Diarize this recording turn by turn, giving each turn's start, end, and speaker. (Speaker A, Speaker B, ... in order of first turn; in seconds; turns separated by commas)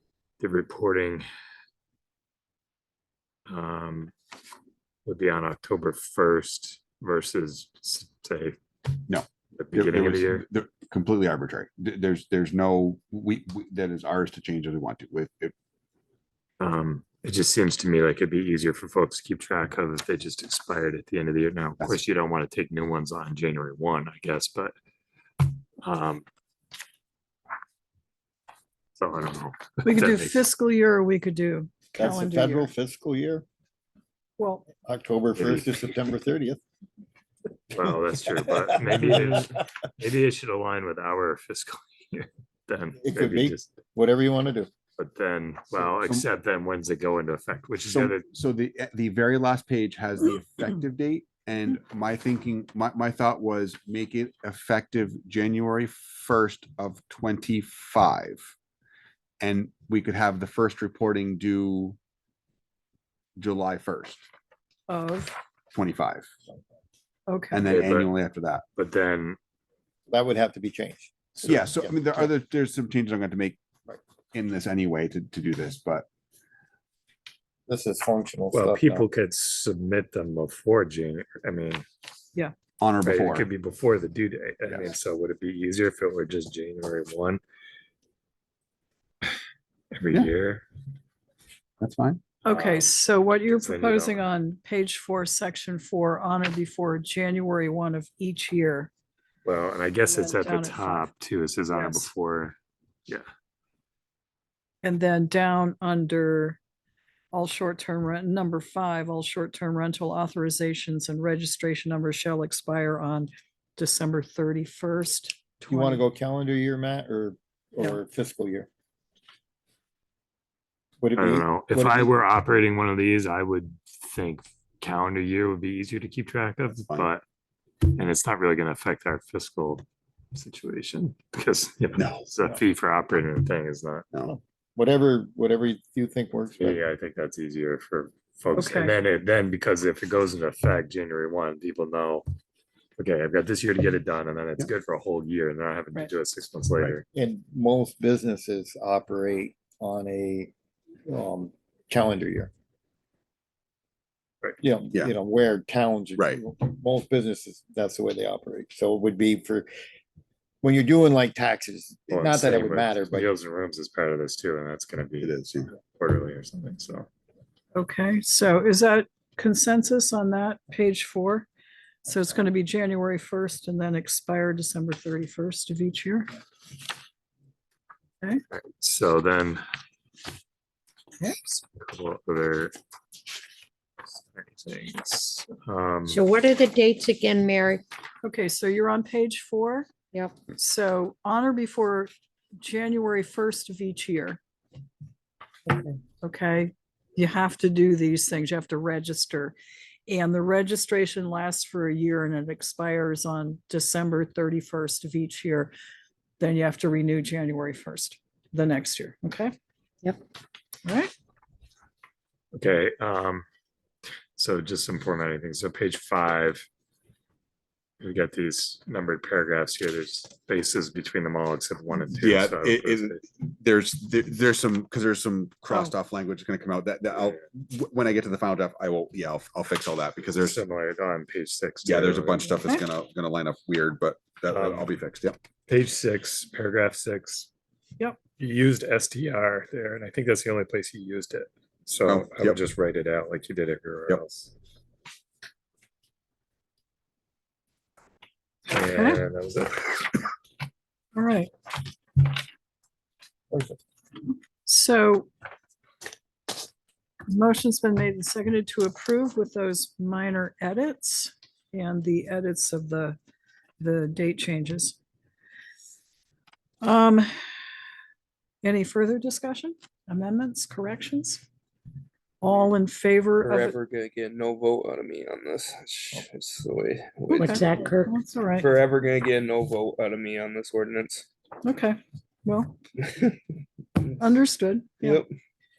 Speaker A: 0.4-1.2, Speaker A: 3.5-4.1, Speaker A: 5.0-8.6, Speaker B: 9.1-15.5, Speaker A: 9.5-10.4, Speaker A: 16.6-24.7, Speaker A: 25.8-26.2, Speaker A: 28.9-30.4, Speaker C: 29.8-32.7, Speaker D: 32.0-33.5, Speaker C: 34.4-34.7, Speaker D: 34.8-36.6, Speaker A: 35.4-35.7, Speaker A: 37.7-43.7, Speaker D: 38.6-39.2, Speaker D: 43.0-44.7, Speaker A: 45.0-48.2, Speaker B: 45.8-46.3, Speaker B: 47.8-58.5, Speaker B: 59.4-62.0, Speaker B: 63.4-64.2, Speaker C: 64.9-65.4, Speaker B: 65.7-66.3, Speaker C: 67.3-67.7, Speaker B: 67.5-68.6, Speaker A: 67.7-68.1, Speaker A: 68.7-69.4, Speaker D: 70.1-72.3, Speaker B: 71.4-73.6, Speaker B: 74.3-76.0, Speaker D: 77.7-79.1, Speaker A: 78.5-81.8, Speaker B: 82.8-83.5, Speaker A: 83.0-87.4, Speaker B: 84.7-84.9, Speaker A: 89.9-90.6, Speaker B: 91.8-92.2, Speaker C: 92.4-98.9, Speaker A: 92.5-92.9, Speaker A: 93.5-94.2, Speaker A: 99.4-103.3, Speaker C: 100.1-101.1, Speaker C: 101.7-102.1, Speaker C: 104.8-106.6, Speaker C: 107.3-116.0, Speaker D: 115.7-118.7, Speaker D: 121.0-122.1, Speaker A: 121.2-127.2, Speaker A: 127.9-134.1, Speaker B: 132.0-132.2, Speaker D: 134.2-136.8, Speaker A: 136.6-142.3, Speaker C: 138.5-138.9, Speaker A: 143.0-147.0, Speaker D: 147.1-150.5, Speaker D: 151.1-152.5, Speaker D: 154.6-159.7, Speaker D: 160.6-163.3, Speaker A: 162.1-167.1, Speaker B: 165.2-165.7, Speaker C: 167.7-171.5, Speaker C: 172.0-176.3, Speaker A: 178.8-179.6, Speaker A: 181.7-182.7, Speaker A: 184.3-186.2, Speaker E: 186.1-187.8, Speaker C: 188.2-189.9, Speaker E: 190.1-190.4, Speaker C: 190.5-194.4, Speaker E: 195.7-196.0, Speaker C: 196.2-199.5, Speaker C: 200.1-205.7, Speaker C: 206.4-209.5, Speaker C: 210.8-211.1, Speaker A: 212.5-213.4, Speaker A: 214.3-216.7, Speaker A: 218.0-223.2, Speaker B: 222.1-230.6, Speaker A: 230.4-232.6, Speaker B: 231.8-235.4, Speaker A: 234.5-235.0, Speaker A: 235.7-237.5, Speaker A: 238.4-244.5, Speaker B: 242.0-242.6, Speaker A: 248.7-250.2, Speaker C: 248.9-249.2, Speaker C: 251.1-251.5, Speaker C: 254.6-255.3, Speaker C: 257.3-263.2, Speaker C: 263.8-265.0, Speaker C: 266.8-267.3, Speaker C: 268.6-271.4, Speaker C: 272.4-273.8, Speaker F: 273.4-278.0, Speaker C: 277.3-278.7, Speaker E: 277.3-278.1, Speaker F: 278.6-281.2, Speaker C: 281.6-282.8, Speaker C: 284.2-285.2